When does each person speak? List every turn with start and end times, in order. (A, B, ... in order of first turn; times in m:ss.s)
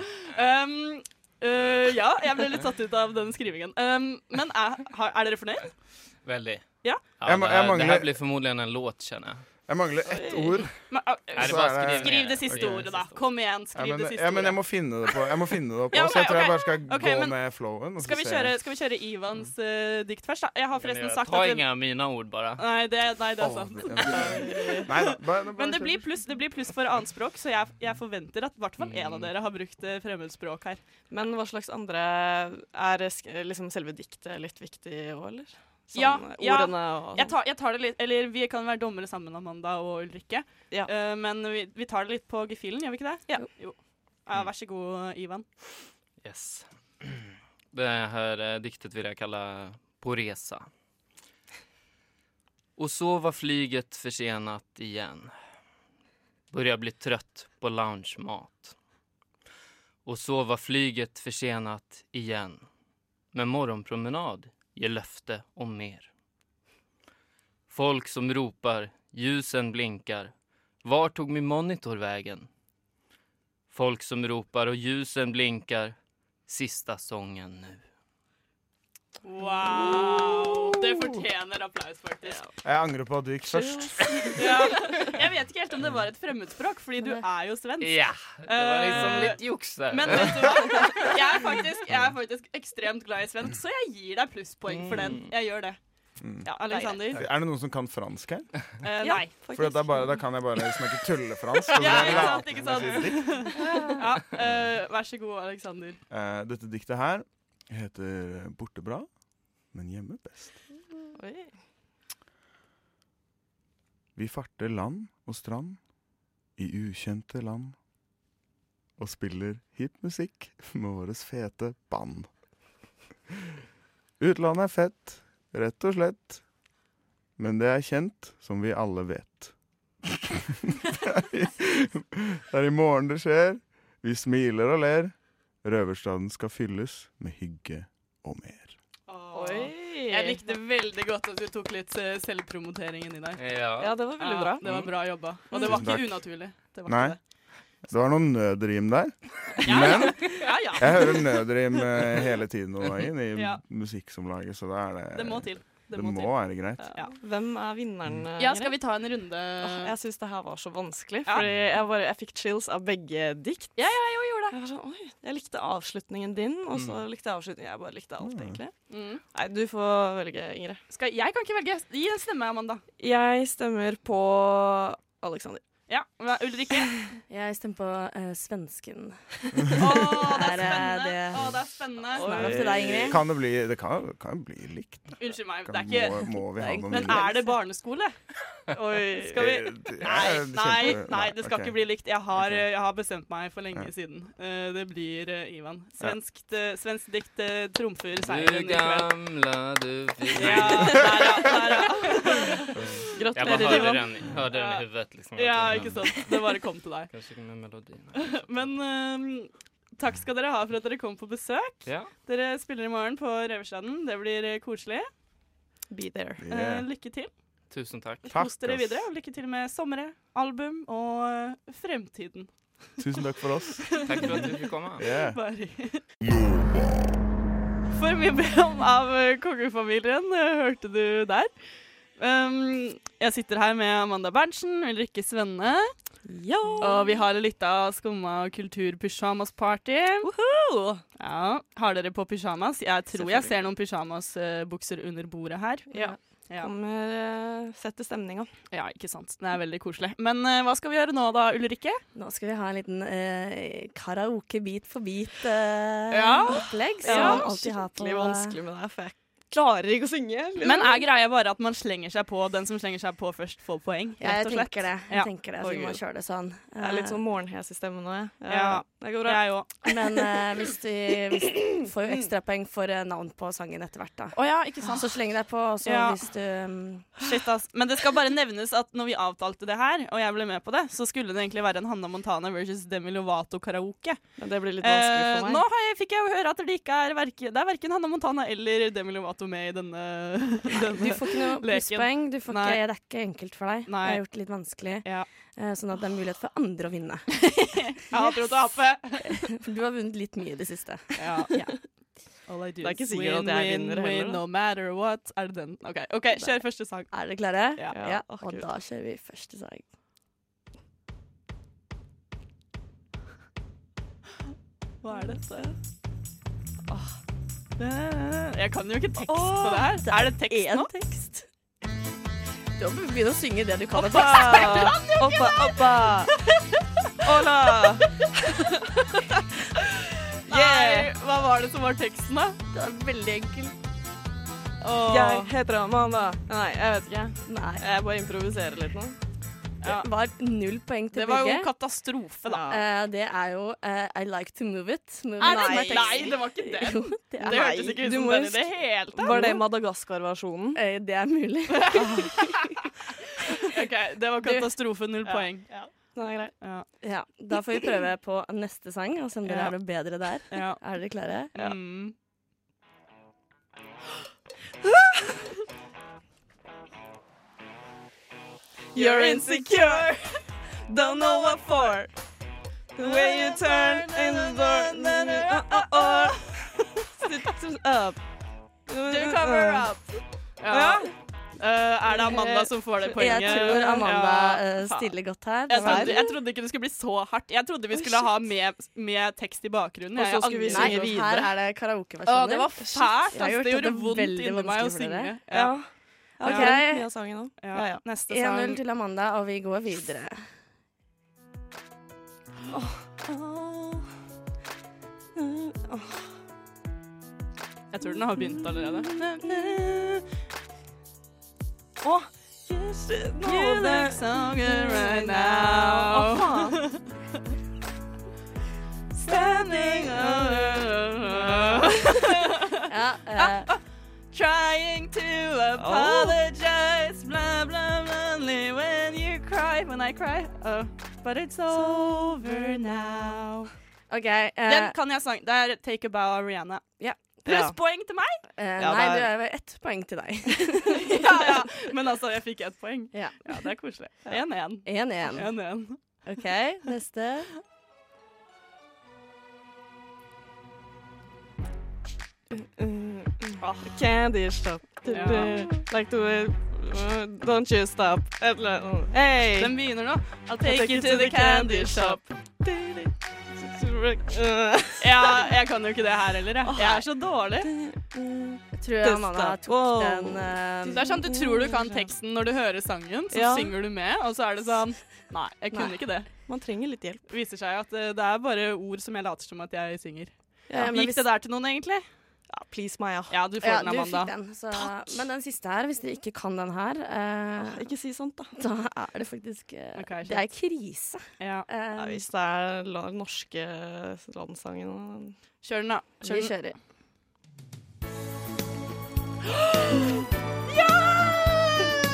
0:00.4-0:06.0 A
0:06.2-0:09.4 B
0:07.2-0:08.2 C
0:09.7-0:13.2 C
0:10.1-0:10.7 D
0:10.9-0:15.0 A
0:11.3-0:13.2 B
0:13.7-0:18.6 C
0:15.9-0:21.9 A
0:20.8-0:22.6 B
0:22.6-0:30.8 A
0:23.4-0:26.3 C
0:24.2-0:24.9 D
0:28.8-0:29.3 B
0:31.1-0:37.3 D
0:35.9-0:45.8 A
0:46.2-0:50.7 B
0:52.8-0:55.4 B
0:56.5-0:58.8 B
1:00.0-1:02.6 B
1:03.3-1:06.1 B
1:07.7-1:12.5 B
1:13.7-1:15.9 B
1:16.5-1:17.8 B
1:19.2-1:22.4 A
1:19.9-1:20.4 D
1:22.2-1:22.6 D
1:22.6-1:24.4 C
1:23.5-1:24.4 D
1:24.3-1:37.2 A
1:27.8-1:30.8 B
1:29.0-1:29.4 C
1:34.7-1:35.3 B
1:36.2-1:36.5 C
1:36.7-1:37.0 D
1:37.1-1:38.8 C
1:38.8-1:39.5 A
1:39.0-1:40.2 D
1:39.5-1:43.6 C
1:41.8-1:46.0 A
1:41.8-1:44.0 D
1:44.4-1:44.7 C
1:46.1-1:50.7 C
1:51.2-1:51.6 D
1:54.1-1:57.8 C
1:59.0-2:02.8 C
2:04.2-2:06.7 C
2:07.4-2:10.0 C
2:10.9-2:18.8 C
2:19.1-2:23.6 A
2:19.3-2:20.5 D
2:23.4-2:23.9 B
2:23.8-2:24.6 D
2:24.2-2:27.2 A
2:25.5-2:25.9 D
2:25.6-2:37.0 C
2:29.6-2:31.2 A
2:33.3-2:33.6 A
2:35.1-2:37.1 A
2:36.8-2:50.8 D
2:38.4-2:39.9 A
2:43.7-2:44.6 A
2:46.7-2:47.0 B
2:48.2-2:48.6 C
2:48.9-2:49.2 A
2:50.9-2:52.8 A
2:53.0-2:55.6 D
2:55.9-2:57.1 A
2:57.3-3:03.2 E
2:59.8-3:02.5 A
3:02.1-3:03.2 D
3:02.3-3:07.3 C
3:05.2-3:19.2 A
3:06.6-3:07.6 E
3:08.7-3:09.6 D
3:09.4-3:11.8 C
3:12.3-3:12.7 C
3:18.2-3:21.2 B
3:20.4-3:22.6 A
3:23.1-3:24.2 D
3:23.4-3:26.3 B
3:23.4-3:27.1 A
3:27.1-3:28.7 B
3:28.2-3:35.1 A
3:31.8-3:32.1 B
3:35.9-3:36.4 D
3:36.4-3:36.8 C
3:36.5-3:37.3 A
3:37.7-3:38.2 B
3:38.2-3:43.0 A
3:38.3-3:39.1 C
3:43.0-3:44.4 C
3:44.0-3:45.0 B
3:44.1-3:46.0 A
3:45.0-3:45.4 C
3:47.9-3:51.5 A
3:52.0-3:56.1 A
3:56.3-3:56.9 E
3:56.3-3:57.2 D
3:56.8-4:00.3 A
4:00.2-4:01.0 D
4:01.2-4:06.7 A
4:03.2-4:03.5 E
4:06.6-4:08.5 D
4:08.7-4:12.0 A
4:12.1-4:18.6 E
4:16.1-4:17.5 A
4:16.3-4:21.0 D
4:20.6-4:25.4 A
4:24.2-4:27.2 E
4:25.6-4:26.1 D
4:26.8-4:30.3 D
4:28.5-4:29.8 A
4:29.8-4:37.2 E
4:34.4-4:35.3 A
4:35.8-4:36.2 A
4:37.2-4:52.8 A
4:44.4-4:45.6 D
4:51.0-5:01.4 E
4:53.8-4:55.3 A
4:58.1-4:59.4 A
5:01.2-5:08.0 A
5:02.8-5:04.4 D
5:06.5-5:09.9 E
5:07.9-5:08.7 D
5:15.0-5:15.7 A
5:16.9-5:17.2 E
5:17.8-5:20.9 A
5:19.2-5:21.5 E
5:22.8-5:25.5 E
5:24.0-5:25.8 A
5:24.2-5:26.3 D
5:27.2-5:28.0 D
5:30.5-5:31.1 D
5:30.5-5:32.6 A
5:32.7-5:33.7 E
5:34.8-5:35.5 A
5:35.1-5:39.2 D
5:37.4-5:37.8 E
5:39.8-5:40.1 A
5:39.8-5:41.7 E
5:41.1-5:42.6 A
5:42.4-5:42.8 D
5:42.7-5:48.1 E
5:45.4-5:49.6 A
5:45.4-5:46.5 D
5:47.4-5:50.8 D
5:49.2-5:49.5 E
5:50.7-5:52.7 E
5:51.9-5:52.2 D
5:53.7-5:56.9 A
5:54.4-5:54.7 E
5:55.2-5:56.6 D
5:57.0-6:01.8 E
5:59.4-5:59.8 A
6:00.5-6:00.8 A
6:01.5-6:02.1 A
6:08.9-6:10.4 A
6:08.9-6:12.1 D
6:11.2-6:11.9 A
6:12.9-6:16.4 D
6:13.0-6:16.8 A
6:17.2-6:20.1 D
6:19.1-6:25.1 A
6:20.6-6:21.1 D
6:22.1-6:24.3 D
6:23.2-6:26.3 E
6:25.7-6:31.0 A
6:25.8-6:26.3 D
6:27.9-6:28.3 D
6:30.1-6:31.5 D
6:30.7-6:35.4 E
6:32.2-6:33.3 D
6:32.4-6:36.9 A
6:35.5-6:38.2 D
6:36.4-6:37.3 E
6:37.6-6:38.8 A
6:38.2-6:40.5 E
6:42.7-6:44.0 D
6:45.4-6:46.3 D
6:47.9-6:50.2 A
6:52.0-6:56.8 D
6:53.4-6:57.1 A
6:59.2-7:01.9 D
6:59.2-7:02.8 A
7:02.9-7:03.7 E
7:03.3-7:13.7 A
7:05.8-7:06.4 D
7:14.1-7:14.9 E
7:14.6-7:18.4 A
7:17.0-7:17.5 E
7:17.4-7:17.8 D
7:18.5-7:21.2 E
7:18.8-7:19.4 D
7:21.1-7:26.2 A
7:23.1-7:27.6 E
7:32.5-7:39.7 D
7:33.6-7:34.0 A
7:35.0-7:35.7 A
7:39.5-7:42.3 A
7:40.6-7:45.4 D
7:45.0-7:47.7 A
7:46.6-7:52.1 D
7:48.8-7:51.2 E
7:50.9-7:56.3 A
7:53.3-7:53.7 D
7:55.7-7:56.0 E
7:56.4-7:57.3 D
7:57.3-8:02.1 A
8:00.7-8:01.3 E
8:02.5-8:03.5 D
8:03.3-8:04.3 A
8:03.6-8:07.9 E
8:07.6-8:08.5 D
8:08.6-8:12.2 E
8:09.9-8:10.5 A
8:11.4-8:11.7 A
8:11.9-8:15.5 D
8:15.6-8:16.7 A
8:16.2-8:16.8 E
8:20.7-8:21.9 A